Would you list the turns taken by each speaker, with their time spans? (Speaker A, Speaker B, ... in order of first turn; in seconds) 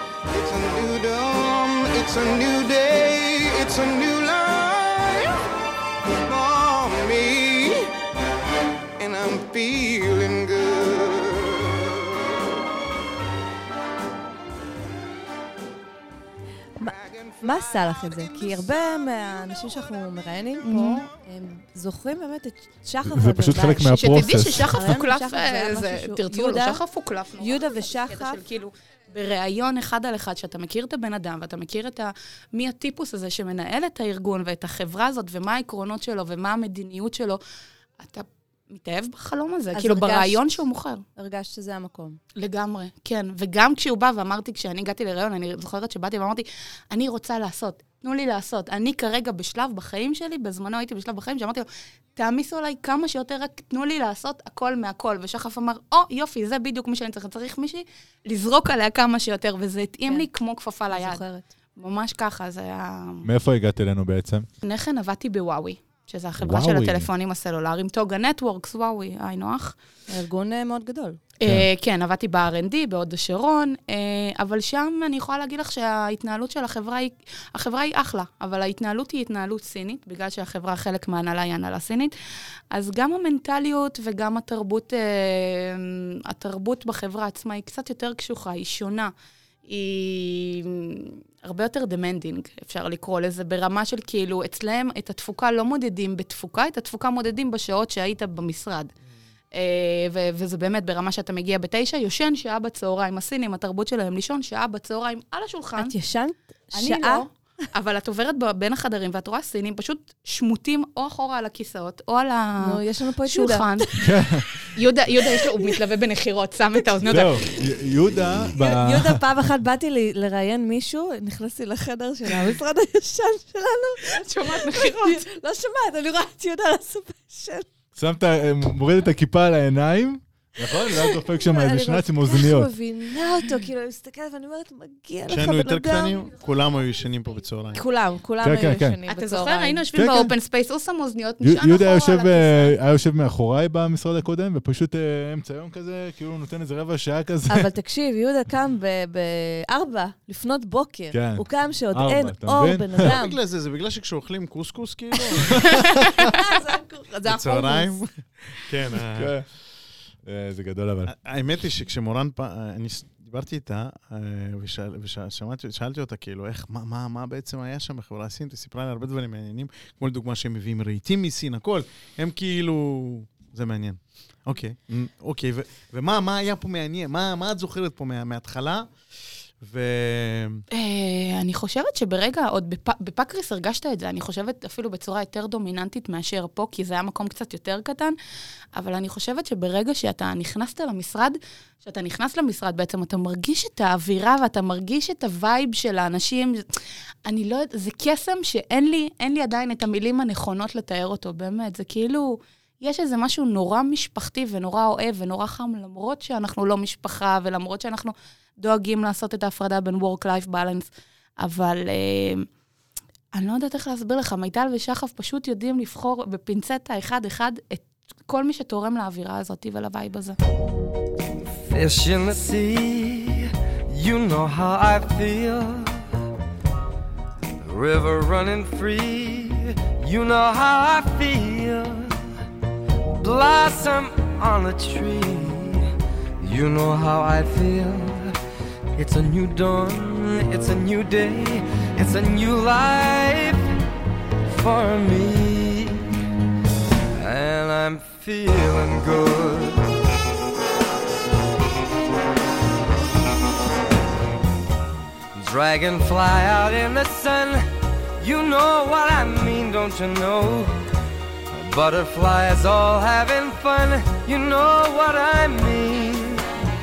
Speaker A: 0.3-5.4, 6.2-7.9, 9.0-11.8, 16.9-18.6
Speaker B: 16.8-26.8, 27.4-28.4, 39.7-40.5, 41.2-42.2, 60.9-61.5, 70.1-71.2, 105.8-107.2, 112.6-113.9, 118.6-127.7, 131.4-136.2, 137.7-139.8, 147.5-153.4, 156.2-158.0
Speaker C: 20.6-21.1, 23.9-37.4, 38.0-41.0, 42.4-61.2, 61.8-63.3, 64.6-69.8, 71.4-82.1, 82.7-89.1, 89.7-98.9, 99.5-106.0, 106.7-114.0, 114.8-117.5, 124.1-125.2, 139.1-142.8, 180.7-188.2, 188.7-196.7, 197.3-210.9, 211.4-212.5, 213.3-220.4
Speaker D: 23.1-24.9, 63.2-64.5, 66.4-67.1, 114.0-114.7, 117.1-119.2, 128.0-132.7, 138.4-139.0, 139.9-140.3, 141.4-147.7, 151.1-153.1, 155.7-156.1, 159.1-159.5, 160.2-161.1
Speaker E: 135.3-137.8, 153.0-155.7, 157.2-159.3, 161.1-178.9, 179.6-180.6
Speaker F: 221.5-226.0, 227.6-232.3, 233.2-235.9, 236.4-238.3, 239.0-243.7, 244.5-246.1, 247.2-249.9, 255.4-257.7, 258.2-260.7, 261.5-266.4